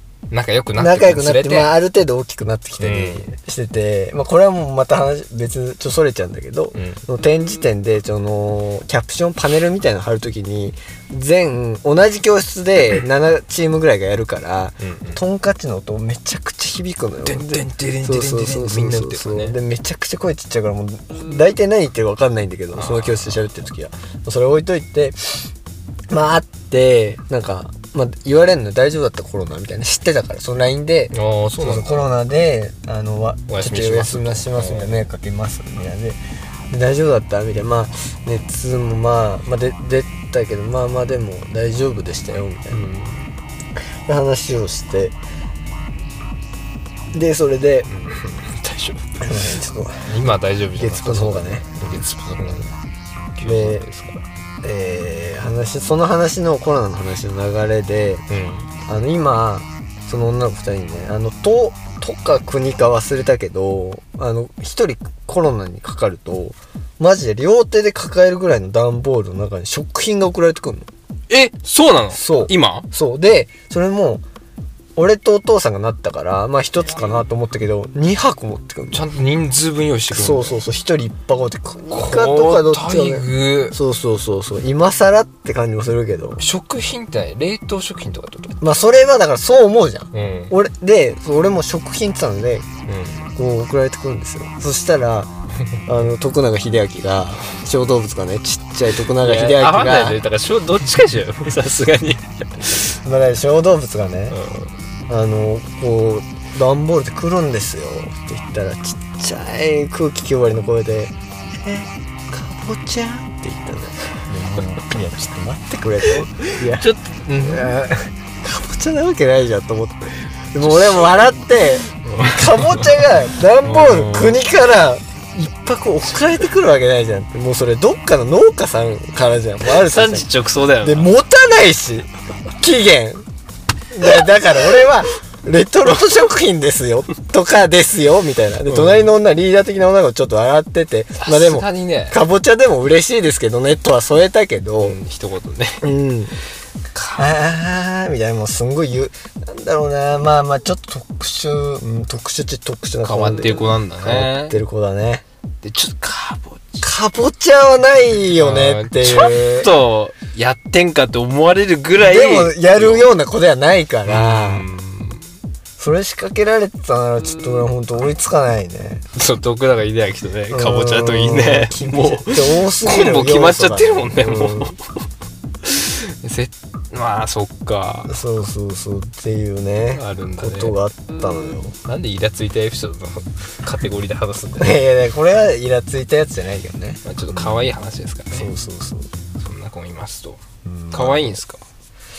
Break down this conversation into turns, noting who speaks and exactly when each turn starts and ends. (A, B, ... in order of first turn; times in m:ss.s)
0:00.3-0:01.7 A
0:00.8-0:25.4 B
0:02.8-0:03.2 A
0:06.7-0:07.0 A
0:14.8-0:15.2 A
0:17.2-0:19.6 A
0:22.7-0:23.4 A
0:26.1-0:36.2 B
0:31.1-0:32.0 A
0:33.5-0:35.0 A
0:36.7-0:42.8 B
0:42.7-0:43.3 A
0:44.0-0:45.2 B
0:47.1-0:47.9 B
0:47.9-0:49.0 A
0:49.2-0:52.6 B
0:50.0-0:52.7 A
0:53.4-0:54.2 A
0:53.4-0:53.8 B
0:54.6-0:58.2 B
0:58.3-0:58.7 A
0:58.9-1:10.9 B
1:11.3-1:12.8 A
1:12.1-1:14.2 B
1:15.0-1:19.0 B
1:18.9-1:20.6 A
1:20.1-1:26.4 B
1:21.9-1:23.8 A
1:26.4-1:28.6 A
1:28.6-1:32.7 B
1:30.1-1:30.5 A
1:32.9-1:33.2 A
1:33.4-1:35.3 B
1:35.8-1:40.2 B
1:39.2-1:43.0 A
1:43.0-1:44.4 B
1:44.3-1:44.7 A
1:45.1-1:56.9 B
1:56.4-1:57.7 A
1:57.4-2:10.3 B
2:00.6-2:01.2 A
2:02.0-2:03.0 A
2:03.6-2:04.4 A
2:09.7-2:11.1 A
2:10.8-2:13.2 B
2:13.9-2:25.0 B
2:18.7-2:19.1 A
2:21.2-2:22.2 A
2:24.8-2:25.9 A
2:25.8-2:26.3 B
2:26.9-2:27.3 A
2:27.2-2:35.2 B
2:33.0-2:34.6 A
2:35.6-2:36.9 A
2:36.8-2:39.7 B
2:38.4-2:43.1 A
2:42.0-2:44.6 B
2:44.0-2:45.2 A
2:45.8-2:49.0 B
2:49.1-2:54.8 A
2:50.5-2:54.7 B
2:55.6-2:58.1 A
2:58.1-3:01.7 B
2:59.9-3:00.8 A
3:01.8-3:04.8 A
3:04.6-3:07.6 B
3:07.0-3:08.5 A
3:08.3-3:09.1 B
3:09.4-3:11.6 A
3:10.6-3:11.4 B